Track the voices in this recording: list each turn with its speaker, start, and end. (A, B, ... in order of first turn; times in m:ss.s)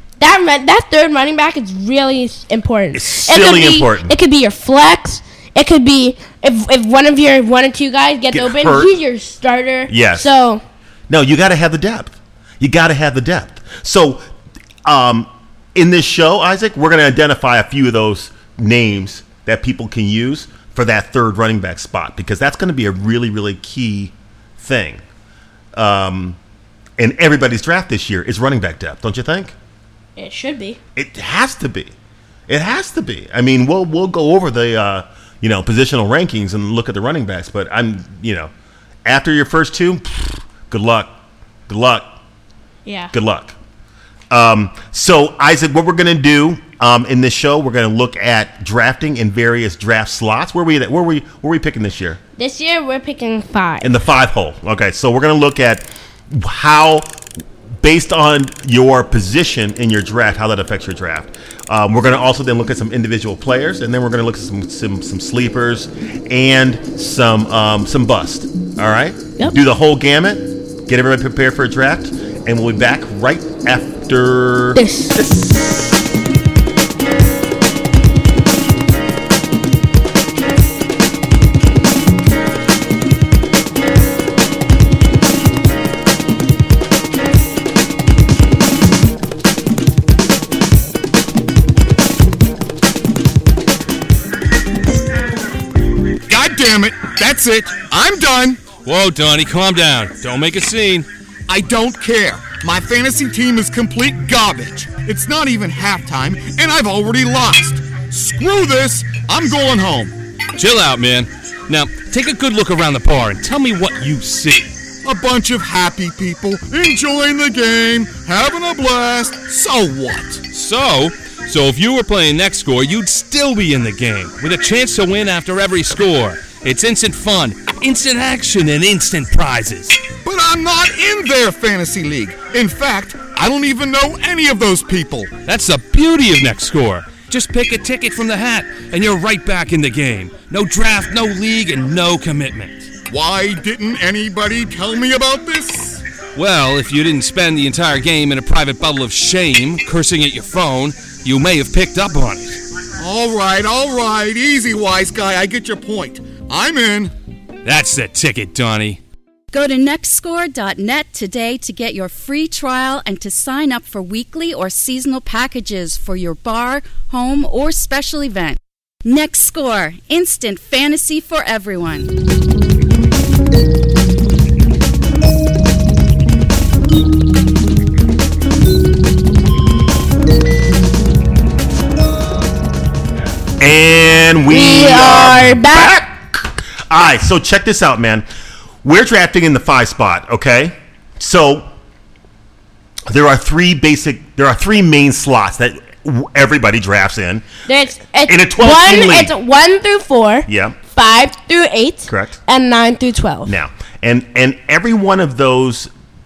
0:00.2-0:10.6 A
0:02.9-0:04.2 B
0:08.3-0:08.9 B
0:09.9-0:10.3 B
0:11.1-0:14.3 B
0:14.8-0:25.0 B
0:25.7-0:26.4 B
0:27.0-0:29.5 B
0:30.2-0:30.8 A
0:31.0-0:31.9 B
0:32.5-0:38.5 B
0:39.0-0:41.1 B
0:41.7-0:42.1 B
0:42.9-0:43.1 A
0:43.1-0:43.6 B
0:44.3-0:52.2 B
0:52.4-0:54.0 A
0:53.8-0:57.1 B
0:57.8-1:16.0 B
1:14.8-1:15.2 A
1:36.3-1:38.7 C
1:38.8-1:41.1 D
1:41.5-1:50.2 C
1:50.6-1:54.7 D
1:55.0-2:00.4 C
2:00.5-2:10.0 D
2:10.2-2:15.4 C
2:15.4-2:22.9 D
2:23.1-2:26.0 C
2:26.4-2:32.6 D
2:33.0-2:37.1 C
2:37.6-2:39.0 D
2:39.5-2:52.1 E
3:03.6-3:08.3 B
3:04.5-3:06.0 A
3:08.8-3:11.7 B
3:13.1-3:17.5 B
3:17.7-3:23.5 A
3:18.2-3:19.3 B
3:20.5-3:20.8 B
3:22.1-3:22.4 B
3:23.5-3:25.9 B